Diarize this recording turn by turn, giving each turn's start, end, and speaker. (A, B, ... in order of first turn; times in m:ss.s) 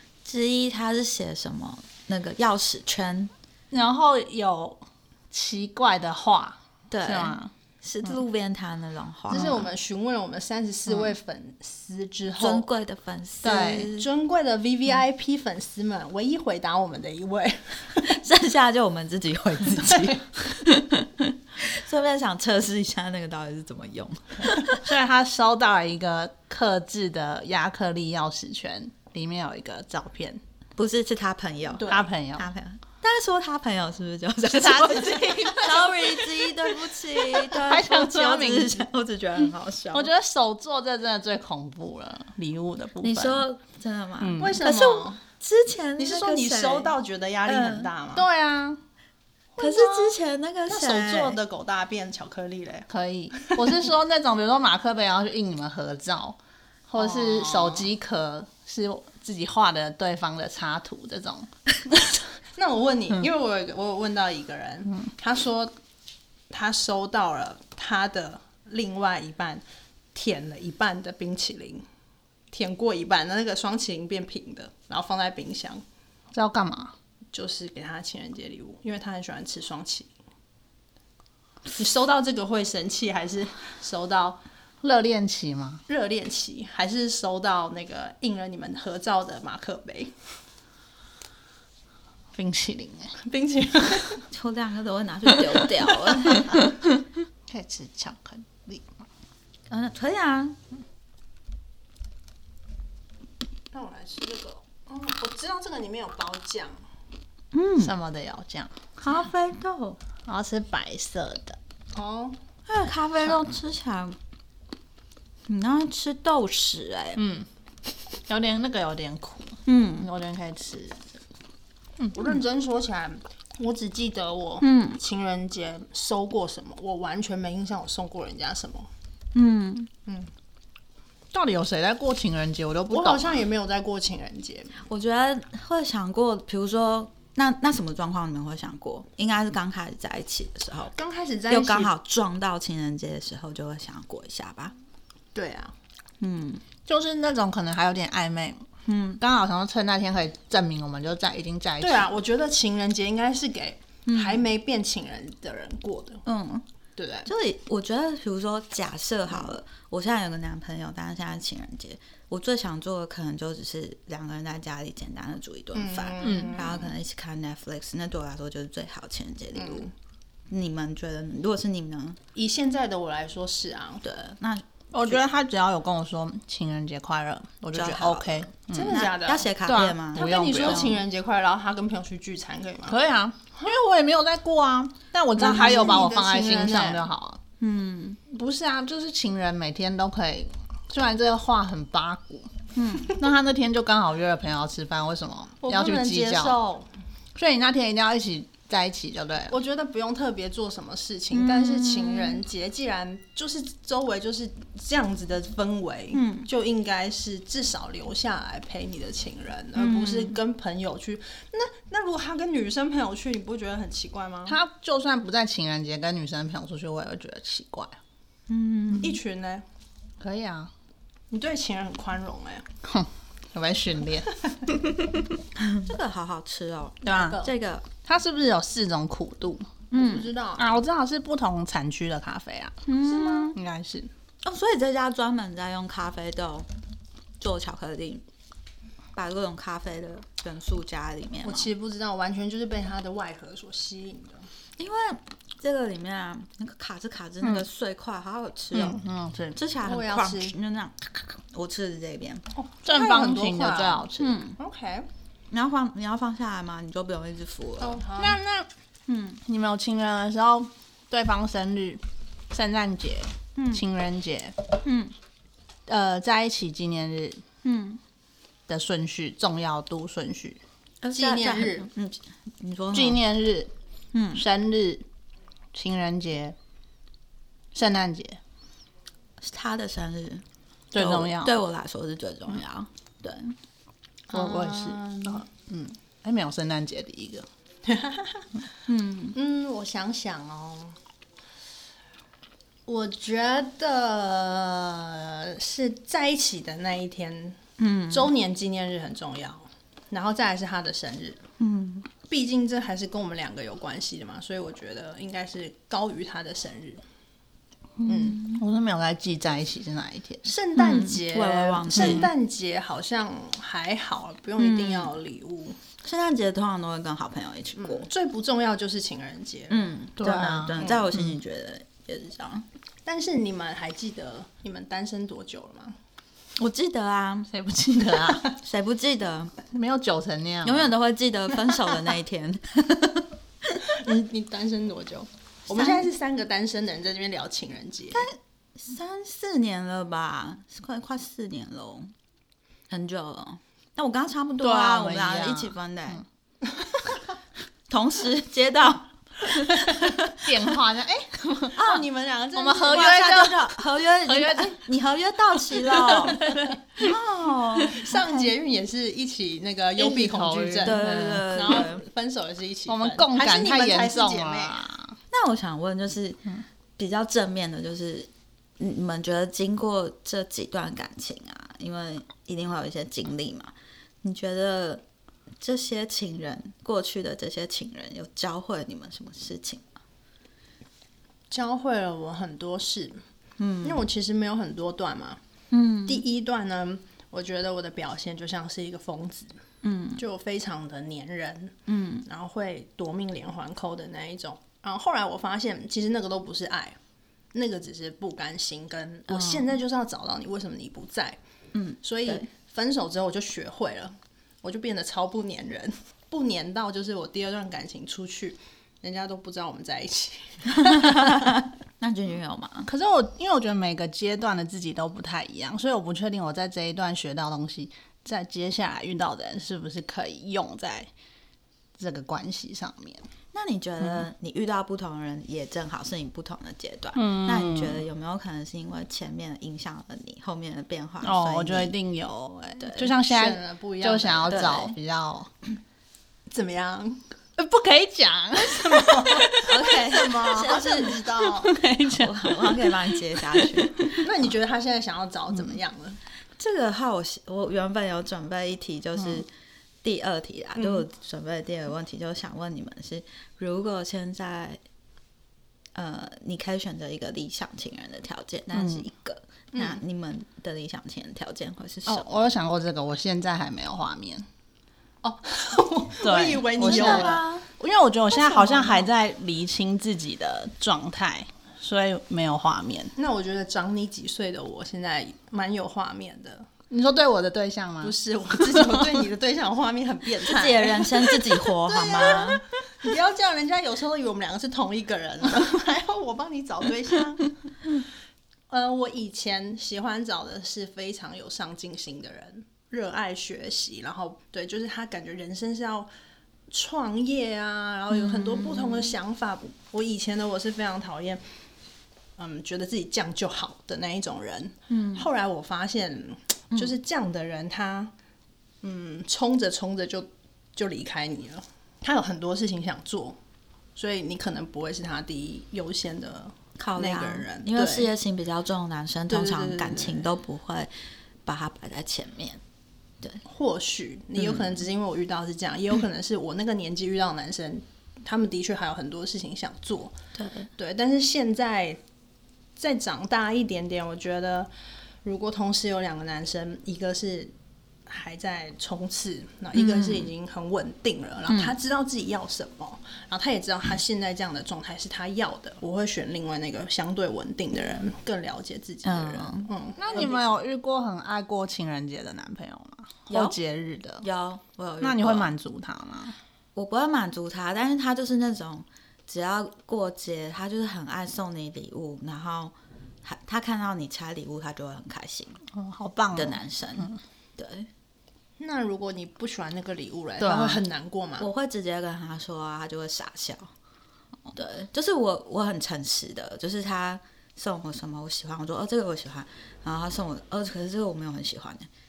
0:00.2-0:03.3 A
0:03.7-0:07.5 B
0:06.9-0:09.6 A
0:09.3-0:12.7 C
0:12.4-0:14.1 A
0:13.4-0:13.9 B
0:13.4-0:18.2 C
0:18.0-0:24.8 A
0:24.7-0:30.4 B
0:30.8-0:40.1 A
0:31.8-0:32.5 B
0:34.5-0:36.3 B
0:37.2-0:38.8 B
0:39.9-0:43.4 B
0:43.0-0:46.9 A
0:44.2-0:44.6 B
0:44.4-0:45.2 C
0:46.0-0:48.2 C
0:47.4-0:47.9 A
0:48.1-0:48.8 B
0:49.6-0:53.7 C
0:49.6-0:51.4 A
0:52.9-1:01.5 B
0:57.0-0:57.9 C
1:02.6-1:05.7 C
1:06.5-1:09.6 C
1:10.1-1:11.8 C
1:12.5-1:15.8 C
1:16.3-1:16.9 B
1:17.3-1:20.1 C
1:21.7-1:24.4 C
1:24.8-1:25.8 B
1:25.9-1:30.1 C
1:32.3-1:33.2 B
1:33.2-1:34.2 C
1:34.3-1:37.0 A
1:37.5-1:38.9 B
1:39.7-1:40.6 A
1:43.7-1:46.8 C
1:47.5-1:47.9 A
1:47.8-1:48.8 B
1:49.0-1:50.0 A
1:50.2-1:51.6 B
1:51.9-1:52.4 C
1:52.7-1:54.2 A
1:55.5-1:57.2 A
1:57.2-1:57.5 B
1:58.2-2:01.1 B
1:59.6-2:00.1 A
2:02.1-2:08.9 C
2:04.6-2:05.0 A
2:09.3-2:09.9 A
2:11.3-2:13.4 B
2:12.9-2:14.8 C
2:14.8-2:20.9 A
2:20.9-2:21.9 C
2:21.5-2:24.7 A
2:25.3-2:25.7 C
2:26.2-2:26.6 A
2:26.9-2:28.6 B
2:28.8-2:29.2 A
2:29.2-2:32.1 B
2:31.8-2:36.2 C
2:34.0-2:34.4 A
2:36.2-2:36.6 A
2:37.0-2:37.2 B
2:37.2-2:49.9 A
2:45.7-2:46.9 C
2:46.2-2:46.5 B
2:49.6-2:49.9 C
2:50.5-2:52.2 A
2:52.3-2:54.0 C
2:54.0-2:55.2 A
2:54.9-2:59.0 B
2:57.7-3:01.0 A
2:58.7-2:59.5 C
2:59.6-3:00.9 B
3:00.1-3:03.0 C
3:02.9-3:07.4 B
3:05.4-3:07.0 C
3:05.4-3:05.9 A
3:07.6-3:08.2 A
3:08.3-3:12.5 B
3:12.7-3:13.2 A
3:13.0-3:16.6 B
3:15.6-3:16.9 C
3:17.3-3:19.6 B
3:19.5-3:34.6 C
3:21.3-3:22.4 A
3:26.1-3:26.5 A
3:29.8-3:30.4 A
3:34.5-3:38.0 B
3:38.5-3:39.2 A
3:39.0-3:39.6 C
3:40.2-3:40.7 B
3:41.3-3:42.7 C
3:42.8-3:44.3 B
3:45.6-3:47.9 A
3:47.0-3:47.4 B
3:47.0-3:47.5 C
3:48.0-3:49.7 B
3:49.9-3:50.3 A
3:49.9-3:50.6 C
3:50.6-3:52.8 B
3:52.8-3:53.6 A
3:53.0-3:53.5 C
3:53.5-3:54.1 B
3:54.4-3:56.7 A
3:57.4-3:58.2 A
3:59.1-4:01.7 A
4:01.4-4:04.5 C
4:04.8-4:09.0 A
4:07.4-4:07.7 B
4:08.7-4:09.6 B
4:09.5-4:12.4 A
4:09.8-4:10.5 C
4:12.6-4:15.1 C
4:12.8-4:14.4 B
4:14.2-4:14.6 A
4:15.5-4:18.0 A
4:17.8-4:18.4 C
4:18.2-4:18.7 B
4:19.1-4:19.4 A
4:19.4-4:24.6 B
4:23.6-4:23.8 A
4:24.8-4:25.1 A
4:25.9-4:27.4 B
4:27.6-4:28.0 A
4:28.7-4:30.6 B
4:31.0-4:33.2 A
4:31.1-4:31.9 C
4:32.9-4:33.7 B
4:34.1-4:34.4 A
4:34.3-4:35.0 B
4:35.7-4:36.6 B
4:37.7-4:38.4 B
4:39.4-4:43.6 A
4:40.9-4:41.5 B
4:44.3-4:45.4 C
4:44.3-4:47.5 B
4:47.8-4:48.5 C
4:48.9-4:49.4 A
4:49.3-4:51.0 C
4:52.9-4:57.6 C
4:57.8-4:58.3 A
4:58.1-5:01.4 C
5:01.6-5:02.1 A
5:02.2-5:07.0 C
5:08.0-5:10.5 B
5:08.0-5:08.6 A
5:08.1-5:08.4 C
5:10.4-5:15.8 C
5:10.8-5:12.3 A
5:11.9-5:12.2 B
5:14.6-5:15.1 A
5:16.0-5:18.1 A
5:17.8-5:21.1 C
5:19.7-5:22.6 A
5:20.2-5:21.2 B
5:23.0-5:26.0 C
5:26.6-5:27.5 A
5:27.5-5:28.5 B
5:28.5-5:29.5 A
5:29.7-5:30.9 B
5:30.6-5:34.0 A
5:33.8-5:38.3 C
5:35.7-5:36.1 A
5:38.1-5:42.1 A
5:42.9-5:46.2 A
5:44.6-5:46.2 B
5:47.9-5:50.5 A
5:49.8-5:51.9 B
5:51.7-5:53.4 C
5:51.8-5:52.0 A
5:52.5-5:54.8 B
5:52.9-5:58.4 A
5:55.7-5:56.7 B
5:57.9-6:04.8 C
6:00.0-6:01.8 B
6:00.8-6:02.0 A
6:02.9-6:05.2 B
6:05.3-6:06.4 A
6:07.0-6:15.0 A
6:15.6-6:19.9 A
6:21.5-6:23.2 C
6:23.6-6:24.0 A
6:23.8-6:25.4 C
6:25.7-6:26.2 A
6:26.0-6:29.6 C
6:29.8-6:30.2 A
6:30.2-6:37.0 C
6:31.9-6:32.2 A
6:37.5-6:41.4 C
6:39.3-6:39.7 A
6:41.7-6:42.5 A
6:42.0-6:51.5 C
6:50.8-6:52.9 A
6:52.9-7:01.1 B
7:02.0-7:03.3 B
7:03.5-7:11.9 A
7:07.1-7:08.0 B
7:11.2-7:15.5 B
7:12.8-7:13.2 A
7:13.2-7:14.8 C
7:14.5-7:15.0 A
7:16.5-7:17.2 C
7:17.6-7:24.2 B
7:18.7-7:21.7 C
7:19.6-7:21.2 A
7:22.0-7:24.2 A
7:24.2-7:26.2 C
7:26.6-7:29.5 A
7:30.0-7:34.8 A
7:30.8-7:31.0 C
7:35.9-7:42.4 A
7:38.7-7:39.1 B
7:39.7-7:40.0 C
7:42.0-7:44.4 B
7:45.2-7:47.5 C
7:46.2-7:53.1 B
7:46.8-7:47.6 A
7:48.4-7:49.1 C
7:53.2-7:56.7 C
7:56.9-7:58.1 B
7:58.0-8:07.5 C
8:00.4-8:02.6 A
8:08.7-8:16.1 C
8:16.7-8:21.4 C
8:18.1-8:19.1 A
8:22.4-8:28.1 C
8:24.9-8:25.3 A
8:28.8-8:33.4 C
8:34.0-8:38.1 C
8:36.8-8:40.9 A
8:39.3-8:40.2 C
8:41.4-8:42.6 A
8:43.4-8:50.1 C
8:44.4-8:44.8 A
8:50.3-8:50.7 A
8:50.8-8:52.0 C
8:52.8-8:54.7 C
8:55.2-8:57.5 C
8:58.0-9:10.5 C
8:59.7-9:00.3 A
9:01.5-9:01.8 A
9:09.0-9:09.7 A
9:10.0-9:14.2 B
9:13.3-9:13.6 A
9:14.2-9:15.5 A
9:15.0-9:16.4 B
9:16.7-9:25.6 A
9:25.7-9:27.2 B
9:26.3-9:27.9 A
9:28.6-9:31.5 C
9:30.4-9:30.8 B
9:31.4-9:33.7 A
9:34.4-9:41.9 A